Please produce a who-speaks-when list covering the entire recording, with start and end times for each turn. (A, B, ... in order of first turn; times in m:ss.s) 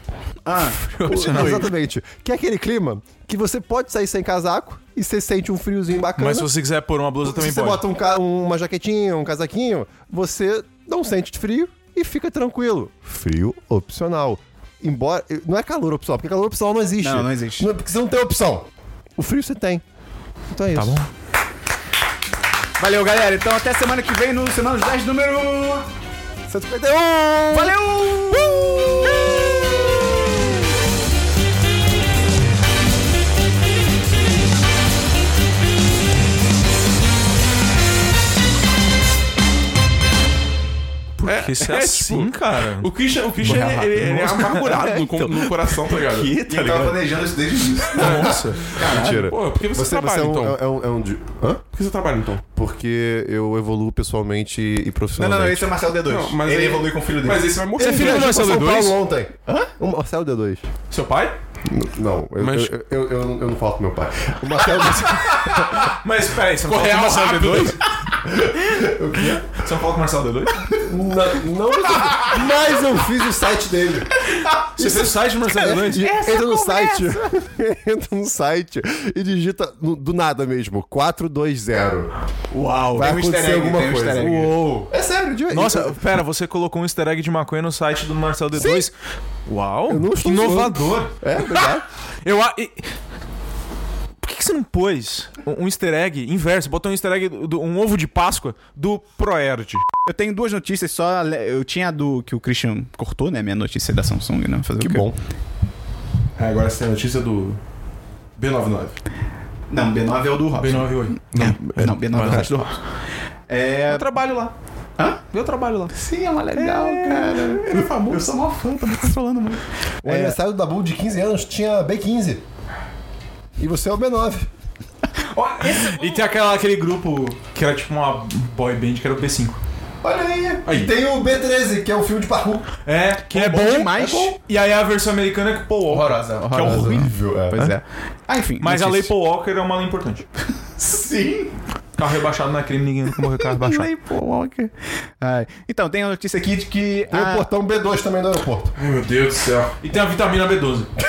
0:00.4-0:01.7 A
0:00.8-0:01.7 B
0:01.1-0:06.5 C
0:06.2-0:07.8 B
0:07.2-0:19.8 C
0:17.0-0:17.7 A
0:20.5-0:21.0 C
0:20.7-0:21.1 B
0:22.8-0:25.9 A
0:26.5-0:30.4 C
0:27.5-0:28.7 A
0:41.2-0:42.9 B
0:41.2-0:46.4 D
0:43.4-0:44.9 A
0:43.4-0:47.0 B
0:46.4-0:49.2 A
0:47.8-0:48.8 B
0:48.0-0:50.6 D
0:48.0-0:51.6 C
0:51.7-0:52.4 D
0:52.5-0:55.7 C
0:55.2-0:57.6 A
0:56.0-0:58.6 D
0:57.8-0:59.0 B
0:57.8-1:00.7 C
1:00.9-1:01.3 B
1:01.6-1:05.9 C
1:02.4-1:02.7 D
1:05.2-1:07.8 B
1:06.6-1:07.8 D
1:08.3-1:09.5 C
1:09.2-1:10.7 B
1:10.7-1:14.1 C
1:14.6-1:16.1 B
1:14.8-1:22.1 C
1:15.5-1:17.3 A
1:22.6-1:23.0 B
1:22.6-1:24.6 A
1:22.9-1:26.0 C
1:24.2-1:24.9 B
1:25.5-1:28.9 B
1:28.5-1:28.9 C
1:29.5-1:31.2 B
1:29.9-1:31.8 C
1:32.2-1:32.9 B
1:34.2-1:39.8 B
1:40.1-1:45.1 A
1:44.8-1:45.2 C
1:46.4-1:47.6 D
1:48.4-1:49.0 D
1:49.7-1:52.8 A
1:50.6-1:51.2 B
1:51.3-1:52.5 D
1:53.5-1:54.1 A
1:53.9-1:54.5 B
1:55.3-1:56.0 B
1:55.9-2:00.4 A
1:56.6-1:57.9 B
1:57.7-1:58.1 D
2:00.0-2:02.4 C
2:03.6-2:04.5 C
2:05.2-2:06.3 A
2:05.6-2:09.6 B
2:10.0-2:12.7 C
2:10.7-2:10.9 D
2:12.8-2:17.7 B
2:13.3-2:14.4 A
2:15.9-2:19.1 A
2:16.6-2:17.6 C
2:18.6-2:20.3 B
2:20.8-2:21.5 A
2:22.0-2:23.9 B
2:23.2-2:27.5 A
2:27.1-2:28.7 C
2:28.8-2:29.8 D
2:29.8-2:30.9 B